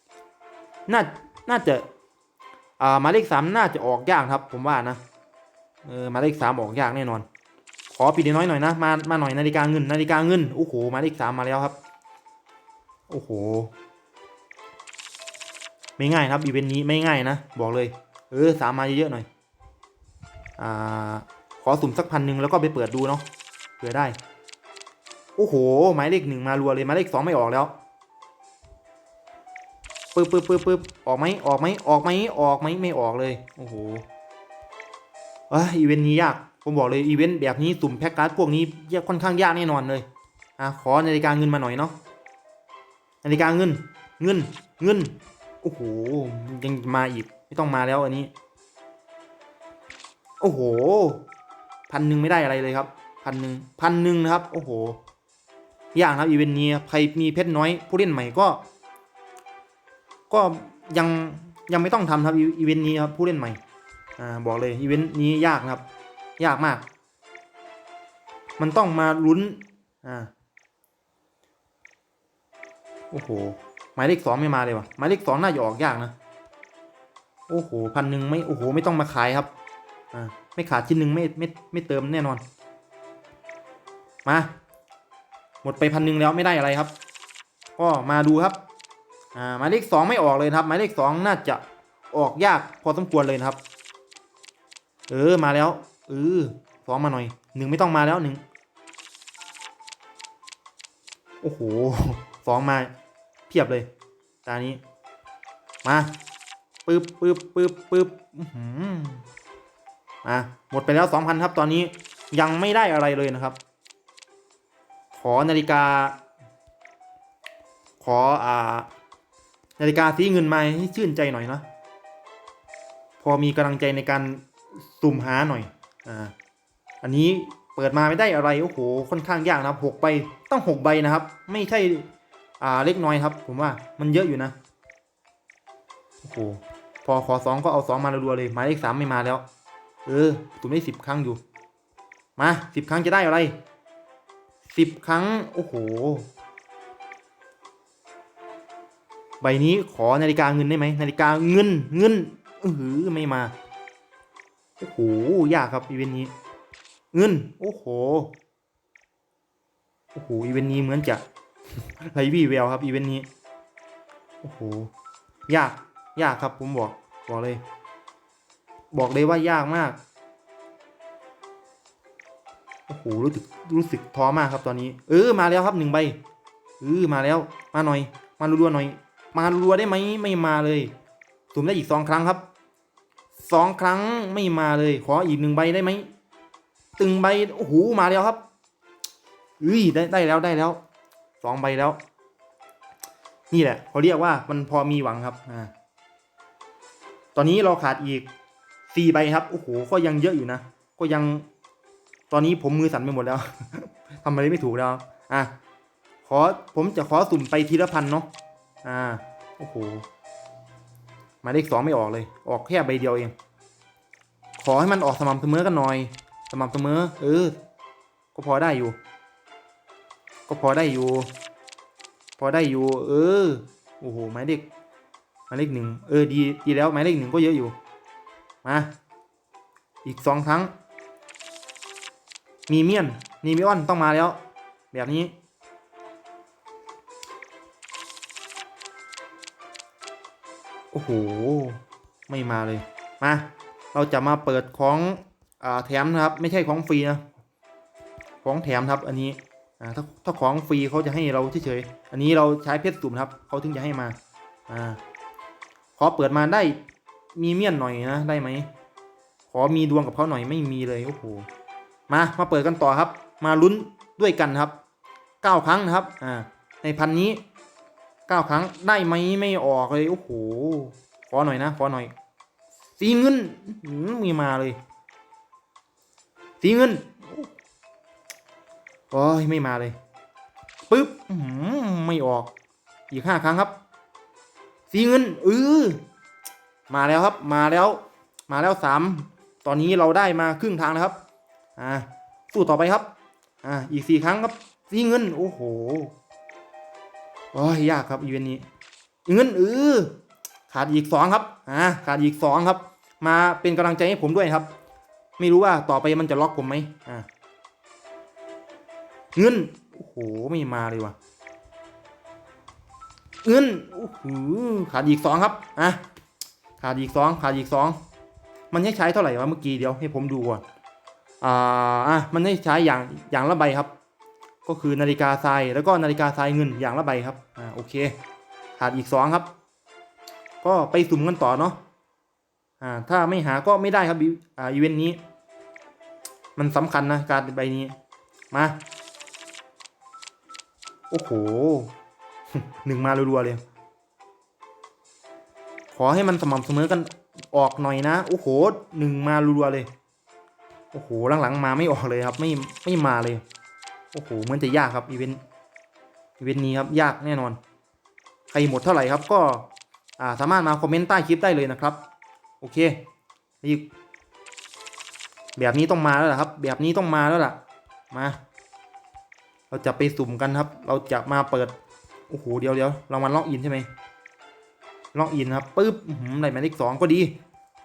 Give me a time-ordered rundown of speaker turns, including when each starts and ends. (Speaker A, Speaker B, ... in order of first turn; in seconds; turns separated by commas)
Speaker A: 0.9-1.9, Speaker A: 2.8-5.0, Speaker A: 5.8-7.3, Speaker A: 7.9-11.8, Speaker A: 13.1-13.7, Speaker A: 16.0-19.3, Speaker A: 20.6-23.2, Speaker A: 23.8-24.2, Speaker A: 25.4-27.7, Speaker A: 30.1-34.0, Speaker A: 35.5-40.1, Speaker A: 40.6-42.0, Speaker A: 43.2-48.3, Speaker A: 50.4-51.2, Speaker A: 51.9-55.0, Speaker A: 55.9-58.6, Speaker A: 60.3-63.6, Speaker A: 64.2-65.8, Speaker A: 66.4-66.8, Speaker A: 68.6-70.3, Speaker A: 73.1-76.1, Speaker A: 77.5-79.5, Speaker A: 80.1-82.4, Speaker A: 84.2-84.5, Speaker A: 85.6-86.9, Speaker A: 87.8-88.6, Speaker A: 89.3-93.6, Speaker A: 95.1-98.4, Speaker A: 101.4-102.9, Speaker A: 103.5-103.9, Speaker A: 104.5-104.8, Speaker A: 105.8-106.1, Speaker A: 106.9-109.2, Speaker A: 110.2-113.6, Speaker A: 115.1-116.2, Speaker A: 118.0-118.9, Speaker A: 119.8-121.6, Speaker A: 123.2-126.3, Speaker A: 127.0-132.1, Speaker A: 132.6-134.6, Speaker A: 136.2-139.4, Speaker A: 140.1-141.4, Speaker A: 142.4-143.6, Speaker A: 144.7-146.3, Speaker A: 149.4-153.5, Speaker A: 154.8-156.3, Speaker A: 157.1-158.3, Speaker A: 160.1-161.2, Speaker A: 161.8-163.3, Speaker A: 164.4-164.9, Speaker A: 165.5-167.6, Speaker A: 168.9-170.0, Speaker A: 172.9-176.2, Speaker A: 176.8-180.9, Speaker A: 181.5-182.4, Speaker A: 183.4-186.1, Speaker A: 187.0-188.4, Speaker A: 189.6-190.8, Speaker A: 191.4-192.0, Speaker A: 193.5-195.7, Speaker A: 197.3-198.3, Speaker A: 198.9-201.5, Speaker A: 202.3-205.5, Speaker A: 206.2-208.3, Speaker A: 208.8-210.0, Speaker A: 211.4-213.3, Speaker A: 214.6-217.6, Speaker A: 218.3-219.0, Speaker A: 220.5-221.3, Speaker A: 222.4-224.7, Speaker A: 225.5-227.7, Speaker A: 228.6-228.9, Speaker A: 230.0-230.7, Speaker A: 232.7-234.4, Speaker A: 234.9-235.3, Speaker A: 240.9-247.3, Speaker A: 248.4-254.2, Speaker A: 254.7-255.0, Speaker A: 256.0-256.8, Speaker A: 257.4-258.7, Speaker A: 259.5-261.5, Speaker A: 262.1-264.8, Speaker A: 265.4-267.4, Speaker A: 268.3-272.1, Speaker A: 273.0-274.8, Speaker A: 276.6-277.5, Speaker A: 279.1-280.0, Speaker A: 280.9-282.5, Speaker A: 283.1-283.7, Speaker A: 284.9-286.0, Speaker A: 286.9-291.2, Speaker A: 291.8-293.1, Speaker A: 293.6-296.1, Speaker A: 297.5-298.7, Speaker A: 299.3-300.1, Speaker A: 300.7-304.7, Speaker A: 305.4-307.3, Speaker A: 309.4-311.1, Speaker A: 313.4-316.0, Speaker A: 316.8-318.0, Speaker A: 318.7-320.6, Speaker A: 321.4-323.9, Speaker A: 324.6-328.1, Speaker A: 328.8-329.5, Speaker A: 330.6-331.8, Speaker A: 332.8-335.2, Speaker A: 336.6-337.9, Speaker A: 341.1-341.9, Speaker A: 342.5-343.6, Speaker A: 345.9-349.9, Speaker A: 350.9-353.4, Speaker A: 354.1-355.4, Speaker A: 356.4-357.6, Speaker A: 358.5-359.7, Speaker A: 360.2-362.0, Speaker A: 362.6-363.0, Speaker A: 363.6-363.9, Speaker A: 365.6-367.6, Speaker A: 368.1-368.4, Speaker A: 369.7-371.7, Speaker A: 372.3-373.9, Speaker A: 375.1-377.4